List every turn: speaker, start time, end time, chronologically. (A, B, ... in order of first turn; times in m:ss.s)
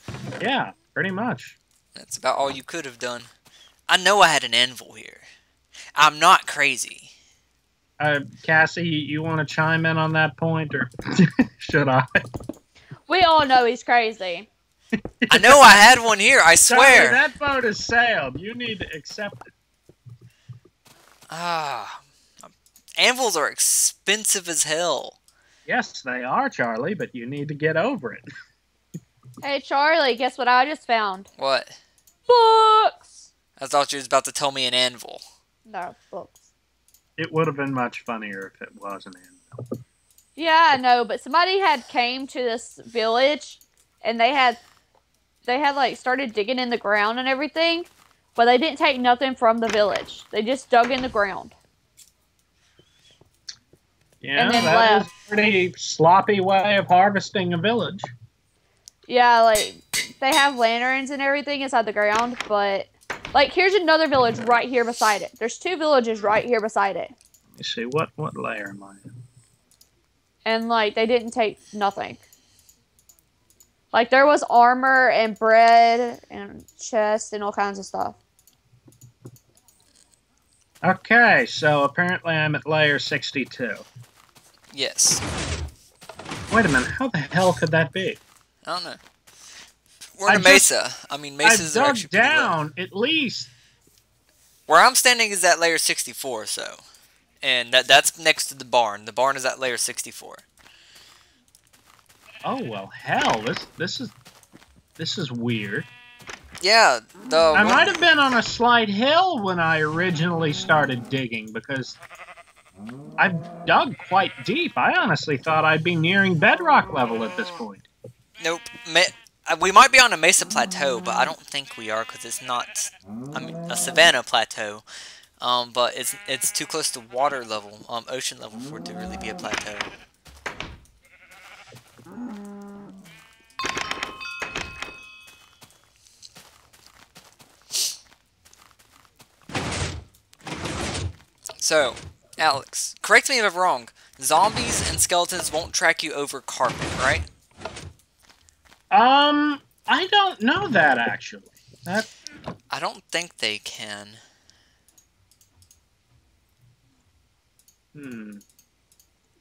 0:00.4-0:01.6 A
0:01.9-0:03.3 B
0:03.9-0:05.2 B
0:06.0-0:07.1 B
0:08.0-0:12.1 A
0:13.1-0:14.5 C
0:15.2-0:15.8 A
0:15.3-0:17.2 B
0:16.7-0:19.5 A
0:21.3-0:25.2 B
0:25.6-0:28.2 A
0:29.4-0:31.3 C
0:31.4-0:31.8 B
0:32.3-0:33.0 C
0:33.6-0:35.2 B
0:35.6-0:36.4 C
0:37.2-0:39.6 A
0:40.4-0:44.6 C
0:45.4-0:51.5 C
0:54.2-0:58.1 A
0:54.4-0:55.1 C
0:59.1-1:07.1 C
1:07.6-1:09.1 A
1:10.4-1:12.2 C
1:13.9-1:18.2 C
1:20.8-1:23.9 A
1:24.7-1:25.2 B
1:26.5-1:28.2 A
1:28.6-1:29.0 B
1:30.2-1:32.6 B
1:30.3-1:30.7 A
1:31.4-1:33.5 A
1:34.7-1:36.8 B
1:37.4-1:40.4 B
1:42.4-1:44.1 A
1:45.0-1:45.9 A
1:46.6-1:47.9 B
1:47.5-1:52.0 A
1:53.2-1:57.9 A
1:58.4-2:04.8 B
2:05.4-2:09.9 B
2:21.6-2:27.2 B
2:28.9-2:32.1 A
2:32.7-2:34.2 B
2:37.9-2:38.4 A